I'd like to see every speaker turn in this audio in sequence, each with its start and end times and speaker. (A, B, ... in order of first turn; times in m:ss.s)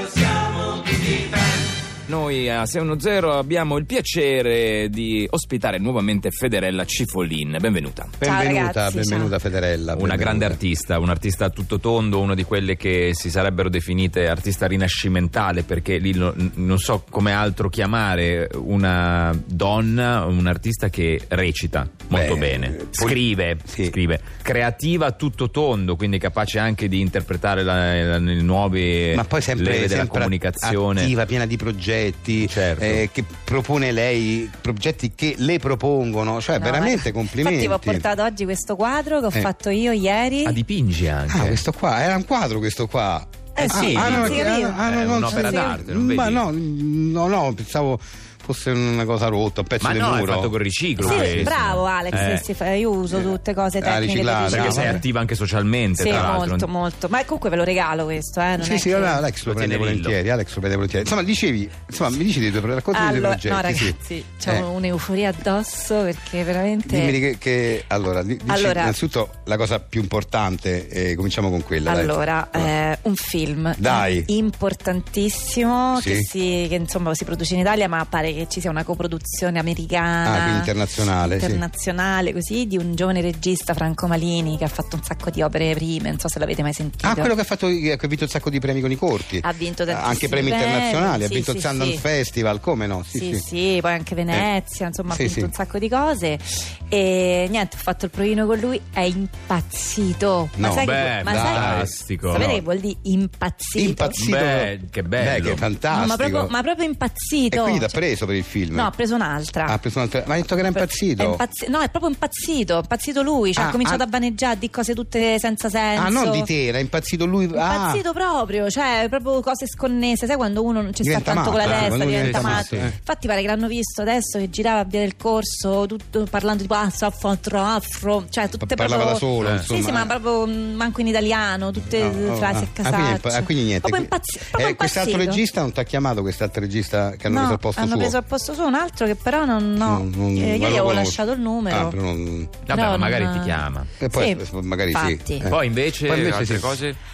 0:02.1-0:08.1 A
0:08.2-0:10.6 B
0:08.2-0:09.4 C
0:09.9-0:31.2 A
0:22.1-0:24.0 B
0:29.1-0:38.1 B
0:32.4-0:33.0 A
0:36.6-0:40.6 C
0:40.4-0:41.6 A
0:41.3-0:51.6 B
0:43.6-0:45.8 C
0:43.6-0:46.5 A
0:49.8-0:52.5 A
0:51.0-0:55.0 C
0:53.1-0:55.0 B
0:54.5-0:56.7 A
0:56.0-0:59.2 C
0:56.1-0:56.3 B
0:58.6-1:04.7 B
0:59.4-1:00.2 A
1:02.9-1:07.2 C
1:06.9-1:12.7 B
1:08.5-1:09.0 C
1:11.9-1:27.3 C
1:13.8-1:14.3 B
1:16.0-1:16.3 B
1:20.2-1:21.6 B
1:27.0-1:33.4 B
1:29.4-1:32.0 C
1:33.1-1:44.2 C
1:35.1-1:35.5 B
1:40.6-1:42.6 B
1:40.8-1:42.6 A
1:43.8-1:46.5 B
1:44.2-1:45.7 A
1:45.9-1:48.0 C
1:47.5-1:49.0 B
1:48.7-1:49.8 C
1:49.6-1:51.4 B
1:50.7-1:56.5 C
1:53.6-1:54.0 B
1:56.0-1:58.0 B
1:57.5-2:15.4 C
2:01.0-2:02.9 B
2:01.6-2:02.9 A
2:08.6-2:10.1 B
2:09.4-2:09.7 A
2:11.9-2:18.2 B
2:17.3-2:22.0 C
2:19.8-2:22.6 B
2:22.7-2:23.9 A
2:22.7-2:25.5 C
2:24.0-2:26.8 B
2:25.4-2:27.0 A